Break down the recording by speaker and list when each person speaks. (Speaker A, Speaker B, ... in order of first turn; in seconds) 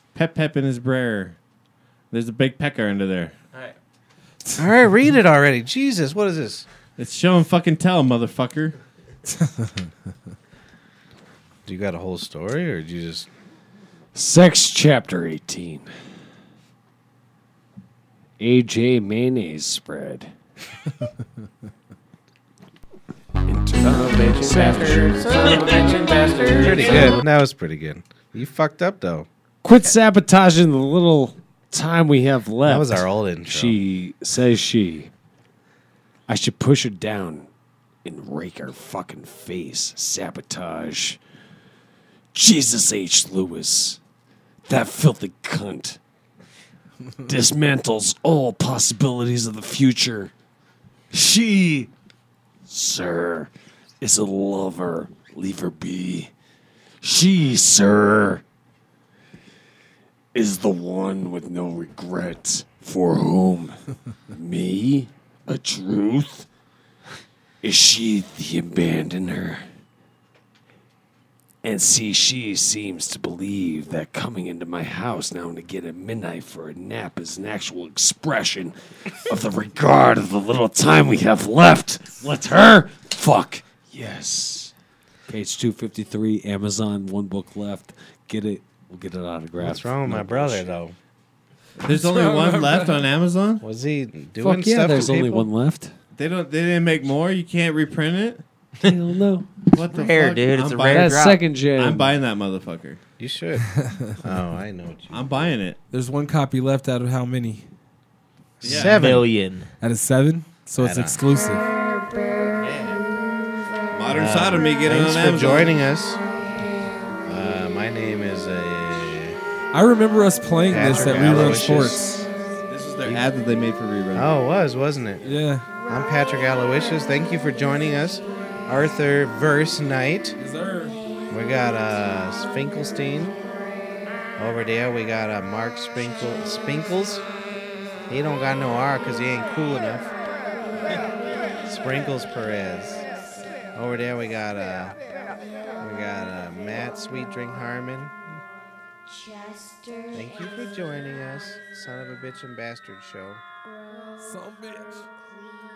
Speaker A: 0.1-1.4, 2.1-3.3, 7.0-8.8, 91.8-93.6, 96.2-98.4, 99.7-103.0, 105.1-105.8, 108.6-109.0, 113.9-115.7, 122.7-124.3
Speaker B: 4.6-6.7, 11.7-13.3, 24.0-29.3, 32.6-33.8, 89.6-91.0, 93.6-95.5, 103.2-103.7, 104.2-105.5, 108.6-109.2, 110.8-111.2, 112.6-113.0, 114.1-116.2, 117.3-119.4, 120.7-122.0, 124.1-130.3, 131.3-133.4, 134.4-137.2, 138.1-140.1, 141.6-143.1, 143.8-145.0, 145.8-148.4, 150.1-153.4
Speaker C: 14.2-15.9, 18.4-20.3, 23.5-25.3, 26.6-27.2, 29.6-35.1, 36.3-37.5, 38.0-41.2, 42.3-44.0, 44.7-46.0, 47.2-50.3, 51.1-51.9, 52.7-53.5, 54.0-56.3, 57.0-58.4, 60.3-63.8, 64.3-66.5, 67.6-69.7, 71.6-84.7, 85.3-90.7, 94.4-95.9, 98.8-99.5, 100.8-102.1
Speaker D: 25.4-25.7, 99.9-101.4, 108.7-109.7
Speaker E: 91.9-92.9, 105.9-107.7, 109.8-111.7, 119.7-122.3, 125.2-125.7, 130.4-131.0, 154.2-155.1